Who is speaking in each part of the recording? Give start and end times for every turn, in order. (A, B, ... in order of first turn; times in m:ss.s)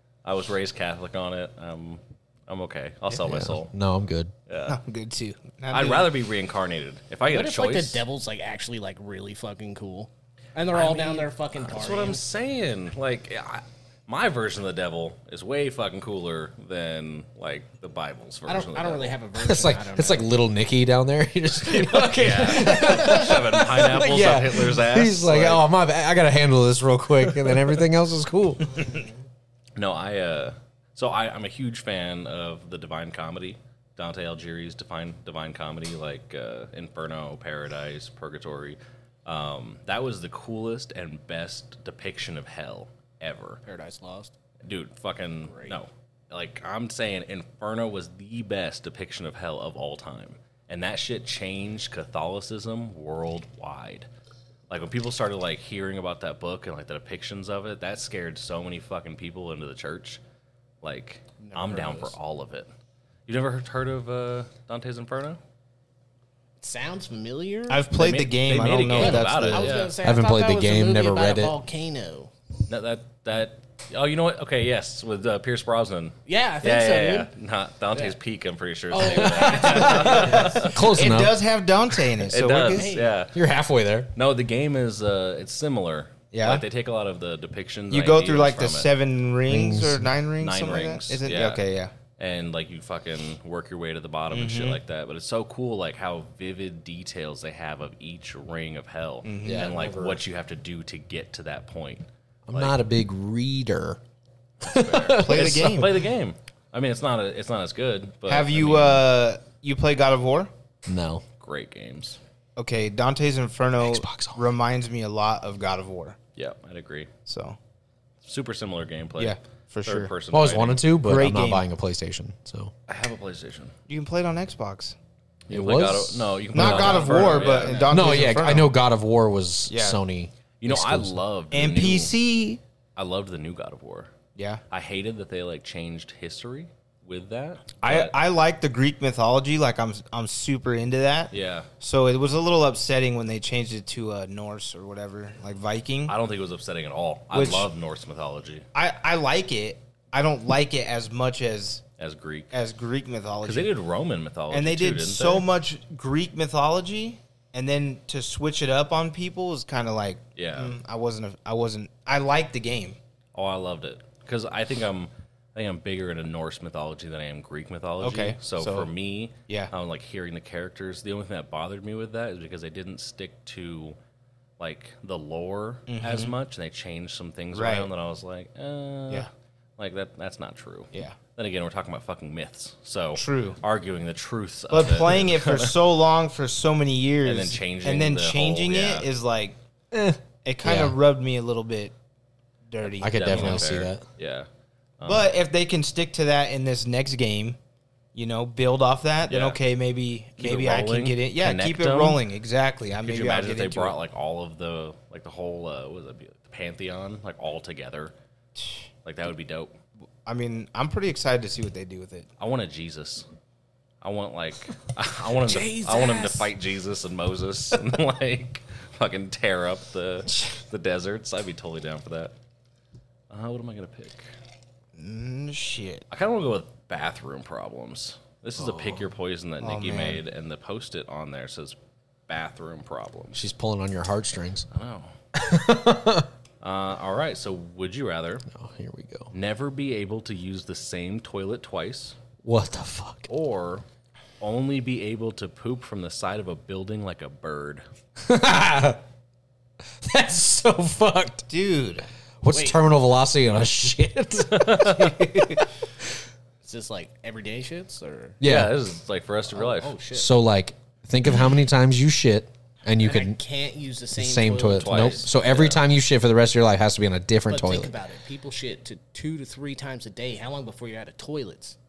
0:00.2-0:03.7 A
0:03.2-0:04.3 B
0:04.5-0:04.8 A
0:04.7-0:06.1 C
0:05.7-0:08.0 A
0:07.3-0:12.2 D
0:10.7-0:19.1 A
0:18.4-0:20.3 D
0:19.4-0:28.7 B
0:21.7-0:25.6 A
0:27.3-0:27.6 A
0:29.8-0:43.6 A
0:43.6-0:44.3 D
0:44.6-0:54.1 A
0:45.4-0:45.8 D
0:54.7-1:00.2 A
1:00.8-1:02.7 A
1:01.4-1:02.1 D
1:03.3-1:05.4 A
1:06.6-1:07.9 D
1:07.7-1:09.7 C
1:08.0-1:09.9 A
1:08.9-1:12.3 D
1:10.0-1:11.5 B
1:12.7-1:20.8 A
1:16.2-1:17.3 D
1:18.9-1:20.7 D
1:19.0-1:21.4 B
1:19.8-1:22.9 C
1:22.1-1:23.4 A
1:22.7-1:23.1 D
1:23.3-1:24.1 B
1:24.1-1:28.9 A
1:26.3-1:26.6 C
1:27.9-1:31.9 C
1:29.5-1:30.1 B
1:30.4-1:31.6 A
1:32.2-1:42.8 A
1:34.3-1:34.8 C
1:39.2-1:39.7 C
1:39.4-1:40.2 B
1:42.5-1:44.0 B
1:44.6-1:45.9 B
1:44.6-1:49.0 A
1:45.2-1:46.0 C
1:48.3-1:50.5 C
1:50.8-1:51.2 B
1:51.4-1:52.2 A
1:52.6-1:56.2 C
1:53.8-1:54.4 B
1:56.4-1:57.1 A
1:57.2-1:57.6 C
1:58.2-2:00.9 A
1:59.2-2:00.1 C
2:00.3-2:02.7 B
2:01.0-2:01.6 C
2:02.9-2:03.7 A
2:03.9-2:05.0 C
2:05.5-2:07.9 A
2:05.5-2:07.1 B
2:06.5-2:08.7 C
2:06.7-2:07.9 D
2:07.9-2:11.2 B
2:09.7-2:10.0 C
2:10.6-2:12.1 A
2:11.5-2:12.6 C
2:13.0-2:14.1 A
2:14.4-2:14.6 C
2:14.7-2:18.1 A
2:17.8-2:26.1 C
2:21.3-2:21.7 A
2:26.1-2:28.6 A
2:27.3-2:27.7 C
2:28.7-2:31.8 C
2:32.0-2:32.5 A
2:32.5-2:33.7 C
2:33.4-2:35.4 A
2:34.5-2:43.0 C
2:40.4-2:40.8 A
2:43.3-2:54.0 A
2:48.0-2:48.9 C
2:54.6-3:05.8 A
2:55.9-2:56.3 C
2:57.5-2:57.9 C
3:03.2-3:03.6 C
3:04.7-3:09.6 C
3:07.2-3:09.1 A
3:09.9-3:11.0 B
3:10.4-3:11.9 C
3:12.7-3:13.7 C
3:13.0-3:14.0 B
3:13.1-3:14.5 A
3:15.0-3:15.3 A
3:15.0-3:17.6 C
3:18.1-3:24.0 C
3:19.3-3:19.6 A
3:20.4-3:22.2 A
3:23.0-3:28.1 A
3:29.0-3:29.7 A
3:30.2-3:32.3 C
3:32.4-3:33.2 A
3:34.0-3:42.3 A
3:35.4-3:36.5 D
3:43.3-3:44.3 A
3:44.9-3:46.0 C
3:46.1-3:51.8 A
3:49.6-3:50.2 C
3:52.3-3:53.4 A
3:53.3-3:54.7 B
3:54.7-3:55.1 A
3:55.3-3:56.3 B
3:56.6-3:58.4 A
3:58.5-3:59.3 B
3:59.3-4:02.2 A
4:02.4-4:03.3 B
4:03.3-4:03.8 A
4:04.4-4:07.8 A
4:08.2-4:09.0 B
4:10.0-4:11.5 B
4:11.5-4:12.0 C
4:12.4-4:15.6 B
4:12.5-4:12.8 D
4:14.5-4:15.2 A
4:16.6-4:18.4 D
4:18.4-4:18.8 B
4:18.4-4:19.9 A
4:19.5-4:20.3 D
4:20.1-4:23.4 B
4:23.0-4:25.3 D
4:24.1-4:27.9 B
4:24.7-4:25.8 A
4:27.5-4:31.8 D